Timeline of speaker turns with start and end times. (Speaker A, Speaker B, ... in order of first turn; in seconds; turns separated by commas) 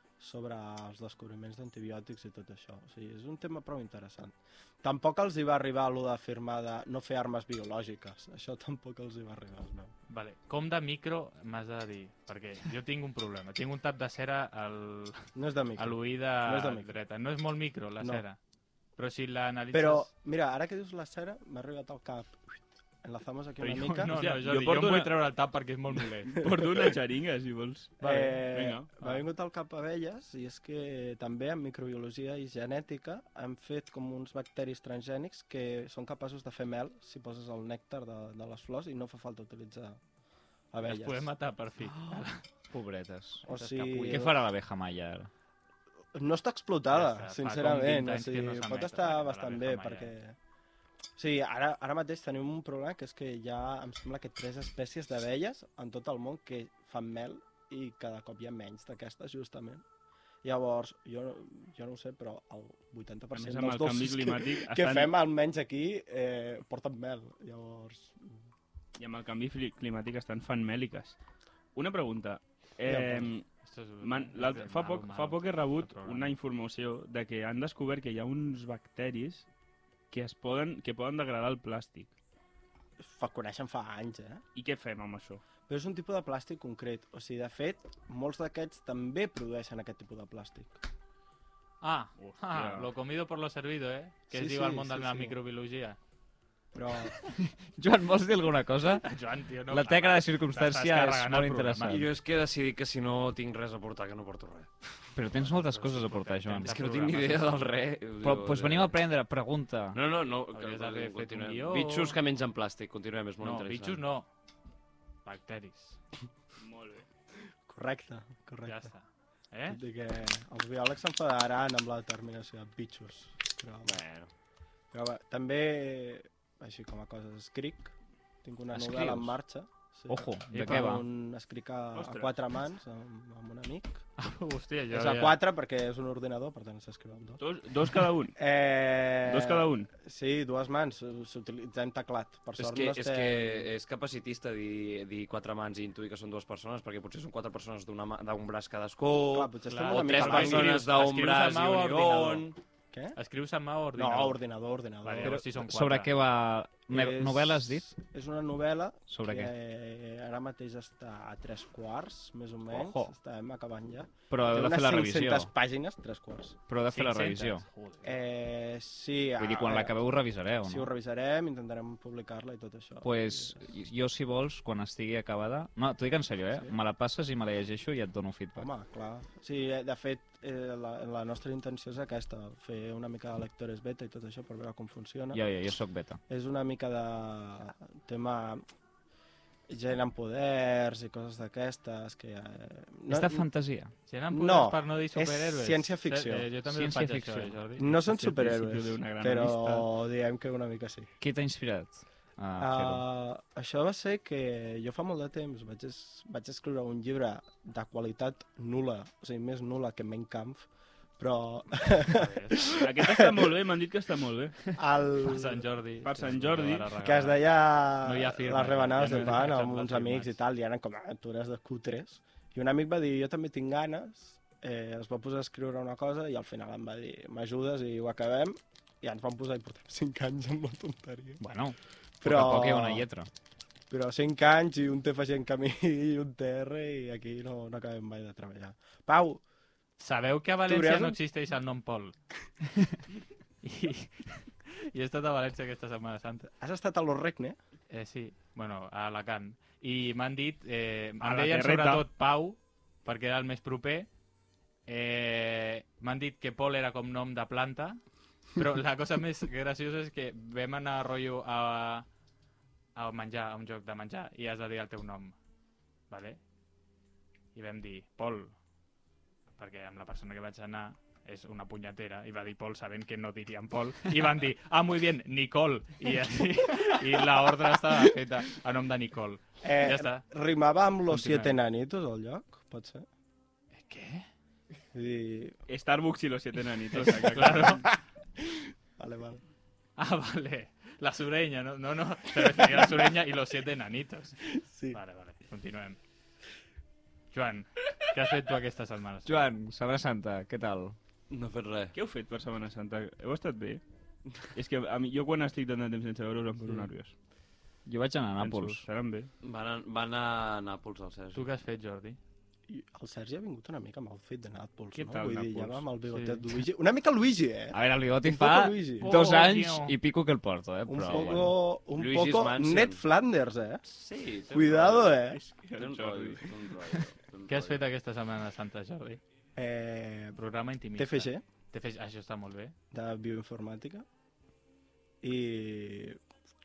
Speaker A: 0.2-9.9, Speaker B: 10.1-18.4, Speaker A: 15.3-16.9, Speaker B: 19.0-20.1, Speaker A: 19.7-24.2, Speaker B: 23.6-26.4, Speaker C: 24.1-25.2, Speaker C: 26.4-28.9, Speaker A: 26.4-26.9, Speaker A: 28.0-40.0, Speaker B: 28.0-28.5, Speaker B: 29.0-29.2, Speaker A: 40.7-41.3, Speaker B: 40.8-42.5, Speaker D: 41.8-45.3, Speaker A: 43.5-44.4, Speaker B: 43.5-44.3, Speaker A: 46.1-50.4, Speaker B: 46.9-50.1, Speaker A: 51.2-59.8, Speaker A: 60.4-68.3, Speaker C: 63.3-65.1, Speaker C: 69.0-71.2, Speaker C: 71.8-73.5, Speaker A: 72.9-73.3, Speaker B: 73.6-76.3, Speaker C: 74.0-79.5, Speaker C: 80.1-82.1, Speaker A: 83.0-84.4, Speaker C: 84.5-85.4, Speaker A: 85.7-90.8, Speaker B: 91.8-96.0, Speaker C: 92.5-92.9, Speaker A: 94.3-95.4, Speaker A: 96.7-97.2, Speaker D: 97.0-99.1, Speaker B: 99.0-102.1, Speaker D: 99.7-102.1, Speaker E: 101.9-104.7, Speaker D: 105.2-107.1, Speaker B: 105.3-107.6, Speaker E: 106.6-109.0, Speaker D: 108.2-110.0, Speaker E: 109.9-114.0, Speaker B: 110.5-112.2, Speaker B: 113.4-114.3, Speaker B: 115.2-116.0, Speaker C: 116.6-117.1, Speaker A: 117.7-118.9, Speaker B: 118.7-119.8, Speaker A: 119.7-124.0, Speaker E: 123.8-124.3, Speaker A: 124.9-134.0, Speaker D: 128.7-129.4, Speaker D: 130.1-131.1, Speaker B: 130.5-130.9, Speaker C: 131.9-132.4, Speaker B: 134.2-135.4, Speaker A: 134.9-137.4, Speaker C: 137.4-138.4, Speaker A: 138.4-143.7, Speaker C: 139.2-139.9, Speaker E: 142.6-152.6, Speaker A: 149.3-150.8, Speaker B: 149.7-152.5, Speaker B: 153.2-154.4, Speaker A: 154.0-155.4, Speaker B: 155.0-156.1, Speaker D: 155.2-157.8, Speaker A: 156.9-166.6, Speaker D: 159.1-159.5, Speaker D: 162.7-163.1, Speaker D: 164.3-165.5, Speaker D: 166.7-167.7, Speaker B: 166.9-168.1, Speaker A: 168.0-170.0, Speaker D: 169.4-170.9, Speaker A: 170.6-173.7, Speaker D: 173.0-178.7, Speaker A: 178.6-185.4, Speaker D: 185.3-186.2, Speaker A: 186.3-188.6, Speaker A: 189.7-193.4, Speaker D: 193.1-193.9, Speaker B: 194.1-198.0, Speaker A: 194.3-196.5, Speaker D: 196.7-197.6, Speaker A: 197.8-201.1, Speaker C: 198.1-199.9, Speaker D: 201.2-203.0, Speaker A: 202.6-210.7, Speaker A: 211.2-213.5, Speaker B: 212.1-212.7, Speaker C: 212.7-214.7, Speaker A: 214.7-215.6, Speaker B: 215.2-217.4, Speaker C: 216.0-216.9, Speaker A: 217.0-231.4, Speaker B: 218.0-220.4, Speaker D: 231.4-233.3, Speaker A: 232.2-233.1, Speaker A: 233.9-239.4, Speaker B: 240.0-242.2, Speaker A: 240.7-241.2, Speaker B: 243.6-246.5, Speaker A: 246.6-247.6, Speaker B: 247.9-254.1, Speaker C: 251.2-252.1, Speaker B: 254.9-258.0, Speaker B: 258.6-262.1, Speaker B: 262.9-265.4, Speaker B: 266.1-266.4, Speaker B: 267.6-268.6, Speaker B: 269.6-280.2, Speaker A: 279.6-283.1, Speaker B: 281.1-281.6, Speaker B: 283.8-284.3, Speaker A: 284.9-285.6, Speaker C: 285.7-287.9, Speaker B: 286.9-287.9, Speaker A: 287.9-289.4, Speaker B: 290.0-294.4, Speaker A: 294.6-295.0, Speaker B: 294.9-296.0, Speaker B: 297.3-299.6, Speaker D: 299.3-301.0, Speaker E: 301.3-301.9, Speaker C: 301.9-303.8, Speaker C: 304.5-307.1, Speaker D: 307.9-308.8, Speaker C: 308.4-309.3, Speaker E: 309.4-311.4, Speaker B: 311.3-312.2, Speaker A: 312.7-319.1, Speaker C: 314.9-315.9, Speaker B: 316.1-316.4, Speaker D: 317.7-321.5, Speaker B: 319.0-320.0, Speaker A: 320.9-323.8, Speaker E: 321.1-323.0, Speaker E: 323.9-325.2, Speaker A: 324.5-325.4, Speaker C: 325.3-326.5, Speaker E: 325.8-327.8, Speaker B: 327.5-329.2, Speaker A: 329.6-330.4, Speaker B: 330.4-332.8, Speaker A: 331.0-331.4, Speaker A: 332.9-334.1, Speaker A: 335.2-336.2